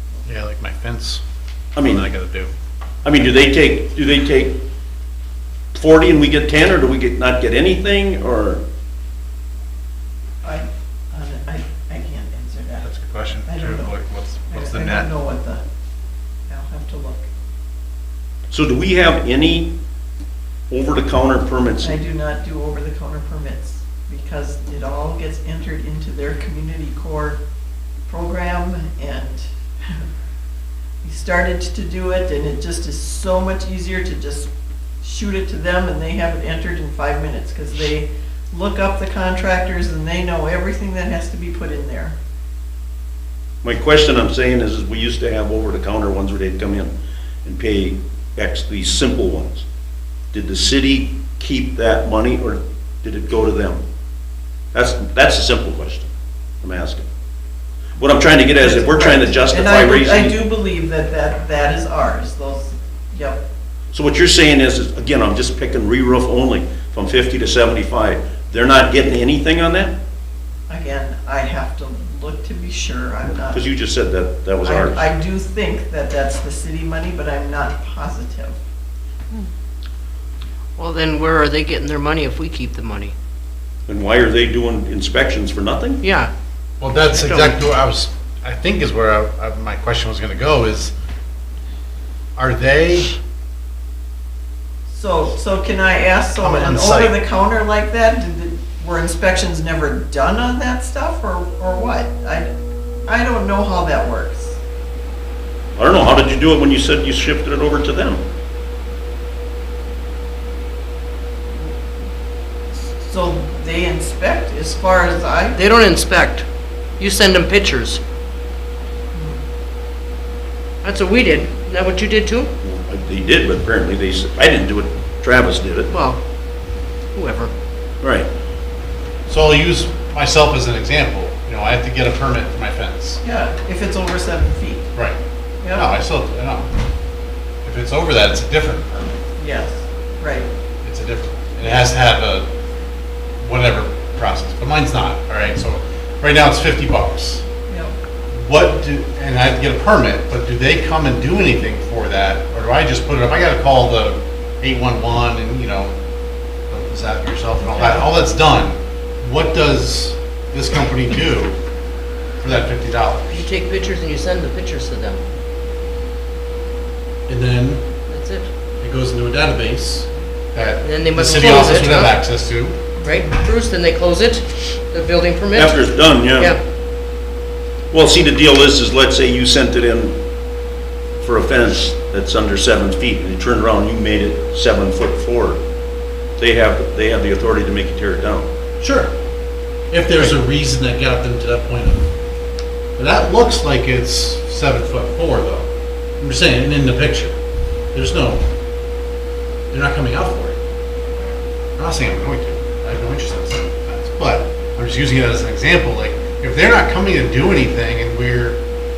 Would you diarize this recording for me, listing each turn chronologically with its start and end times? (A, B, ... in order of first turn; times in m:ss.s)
0:00.2-0:01.2 A
0:01.8-0:02.0 B
0:01.8-0:02.5 A
0:03.0-0:04.6 B
0:05.7-0:08.6 B
0:10.4-0:12.9 C
0:12.8-0:15.1 A
0:13.4-0:13.9 C
0:14.5-0:15.6 C
0:16.5-0:17.3 C
0:18.5-0:19.7 B
0:20.7-0:22.0 B
0:21.8-0:27.4 C
0:28.1-0:30.0 C
0:31.0-0:34.5 C
0:35.0-0:42.2 C
0:43.6-0:46.9 B
0:47.4-0:49.6 B
0:50.3-0:53.8 B
0:54.7-0:56.1 B
0:56.6-0:57.1 B
0:58.0-1:00.4 B
0:58.6-1:03.4 C
1:03.9-1:09.9 B
1:10.7-1:13.6 C
1:13.5-1:15.1 B
1:14.6-1:18.6 C
1:20.8-1:23.1 D
1:23.9-1:26.0 B
1:26.0-1:26.3 D
1:26.8-1:30.9 A
1:27.1-1:27.6 D
1:32.4-1:33.1 A
1:34.9-1:42.5 C
1:36.4-1:37.2 A
1:43.0-1:44.6 C
1:45.8-1:48.2 B
1:52.7-1:55.6 C
1:55.5-1:56.4 D
1:57.0-1:58.0 D
2:00.8-2:02.5 D
2:02.6-2:05.9 B
2:05.9-2:06.2 D
2:07.1-2:07.5 D
2:08.0-2:08.3 B
2:09.3-2:13.2 A
2:13.2-2:14.9 C
2:15.6-2:15.9 C
2:15.7-2:16.7 A
2:17.6-2:18.8 A
2:19.0-2:20.5 C
2:20.8-2:22.4 A
2:23.4-2:27.4 A
2:27.7-2:27.9 C
2:28.3-2:35.9 A
2:36.7-2:41.6 A
2:37.6-2:38.1 C
2:42.4-2:43.4 A
2:43.3-2:45.2 D
2:47.3-2:47.8 A
2:48.1-2:48.5 D
2:48.8-2:52.8 A
2:50.8-2:52.2 D
2:53.0-2:56.6 D
2:55.5-2:56.5 B
2:57.9-3:00.2 B
3:01.2-3:05.6 B
3:06.4-3:08.5 B
3:08.8-3:09.1 A
3:09.9-3:12.1 A
3:13.0-3:15.7 A
3:16.2-3:17.4 A
3:17.9-3:18.4 A
3:19.7-3:20.6 A
3:21.8-3:28.6 A